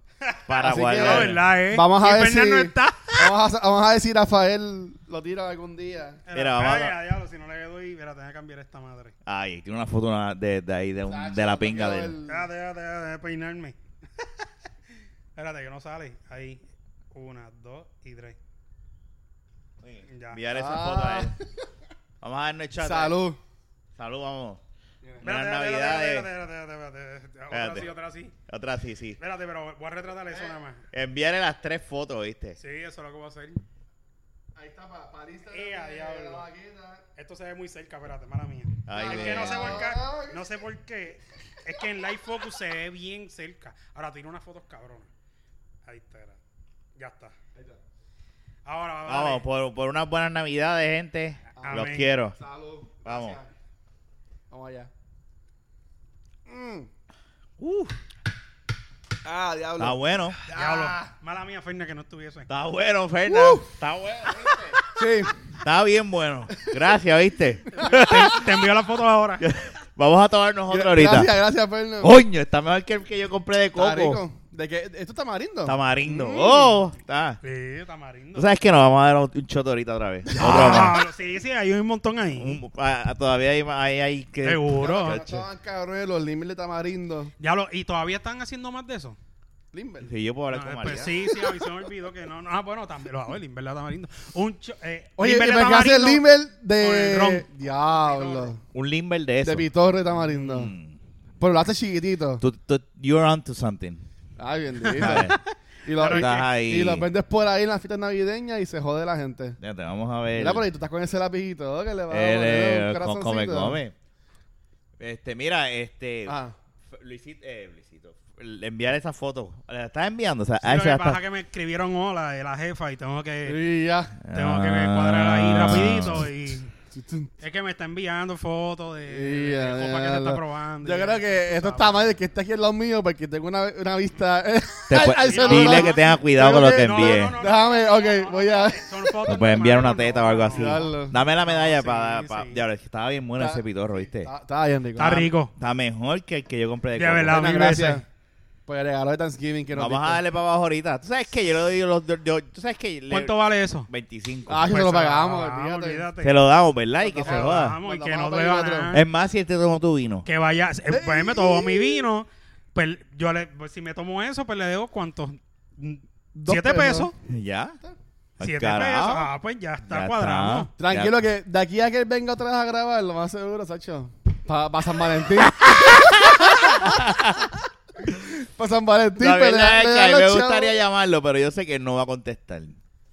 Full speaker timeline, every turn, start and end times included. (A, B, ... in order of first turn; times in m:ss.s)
0:00.2-0:03.3 A
0:00.5-0:01.4 B
0:00.6-0:06.2 C
0:06.3-0:09.1 A
0:06.3-0:07.0 B
0:09.2-0:12.2 B
0:11.0-0:12.5 C
0:12.3-0:13.7 A
0:15.4-0:18.4 A
0:19.8-0:21.4 B
0:20.1-0:20.4 A
0:20.5-0:21.4 C
0:22.2-0:23.2 B
0:22.8-0:23.4 C
0:24.0-0:24.6 B
0:25.2-0:26.3 B
0:25.2-0:28.3 A
0:27.5-0:27.9 B
0:28.5-0:29.2 B
0:29.2-0:30.8 A
0:30.9-0:32.6 B
0:32.6-0:33.6 A
0:34.5-0:37.0 C
0:35.5-0:36.4 A
0:37.2-0:45.1 A
0:38.9-0:39.8 B
0:38.9-0:40.4 C
0:45.9-0:46.4 A
0:47.0-0:47.4 A
0:48.6-0:49.4 A
0:49.1-0:52.4 B
0:51.6-0:53.5 C
0:51.6-0:52.1 A
0:53.0-0:53.4 B
0:54.5-0:54.9 C
0:56.5-0:56.9 C
0:57.6-0:57.9 B
0:59.2-1:01.1 C
0:59.8-1:00.4 B
1:00.5-1:02.5 A
1:02.5-1:04.9 B
1:03.2-1:03.6 C
1:04.3-1:05.3 C
1:05.6-1:08.5 B
1:07.7-1:09.4 A
1:09.4-1:11.3 B
1:10.7-1:12.2 C
1:12.0-1:14.2 B
1:13.8-1:16.7 C
1:15.6-1:17.4 B
1:17.4-1:18.5 A
1:18.4-1:21.0 B
1:20.4-1:22.6 A
1:20.4-1:20.8 C
1:22.4-1:25.4 B
1:24.4-1:25.2 A
1:24.8-1:27.3 C
1:27.4-1:29.2 A
1:29.7-1:30.1 C
1:30.0-1:31.1 B
1:30.5-1:36.2 A
1:35.2-1:38.6 C
1:36.8-1:38.5 A
1:38.7-1:39.7 B
1:39.4-1:40.7 C
1:40.3-1:41.0 B
1:41.4-1:42.4 C
1:42.4-1:44.0 B
1:44.4-1:45.3 C
1:44.9-1:45.4 B
1:45.0-1:45.4 A
1:45.8-1:49.6 C
1:46.0-1:46.4 A
1:46.0-1:47.0 B
1:49.6-1:50.6 B
1:50.4-1:53.8 C
1:52.1-1:53.9 B
1:55.0-1:56.4 B
1:56.3-1:56.5 C
1:56.9-2:01.2 B
2:00.6-2:03.6 A
2:03.4-2:04.2 C
2:04.2-2:06.3 B
2:04.3-2:06.7 A
2:06.9-2:07.3 C
2:07.4-2:11.9 A
2:09.1-2:19.2 C
2:14.9-2:17.4 B
2:15.2-2:16.2 A
2:16.7-2:22.6 A
2:19.2-2:24.3 B
2:20.5-2:21.2 C
2:23.4-2:25.3 C
2:25.0-2:25.5 A
2:25.6-2:27.7 B
2:27.0-2:28.0 A
2:27.3-2:28.0 C
2:28.7-2:30.2 C
2:29.7-2:33.3 B
2:33.1-2:33.9 A
2:33.9-2:34.9 B
2:34.5-2:36.1 C
2:34.7-2:36.4 A
2:36.2-2:37.8 B
2:37.0-2:38.9 C
2:37.2-2:39.0 A
2:38.9-2:40.3 B
2:40.2-2:47.1 A
2:40.9-2:42.0 C
2:46.4-2:47.1 C
2:47.2-2:47.8 B
2:48.4-2:49.3 B
2:48.4-2:50.7 A
2:49.8-2:51.2 B
2:50.8-2:57.2 C
2:55.6-2:57.5 B
2:58.0-3:00.8 C
2:59.2-3:02.8 B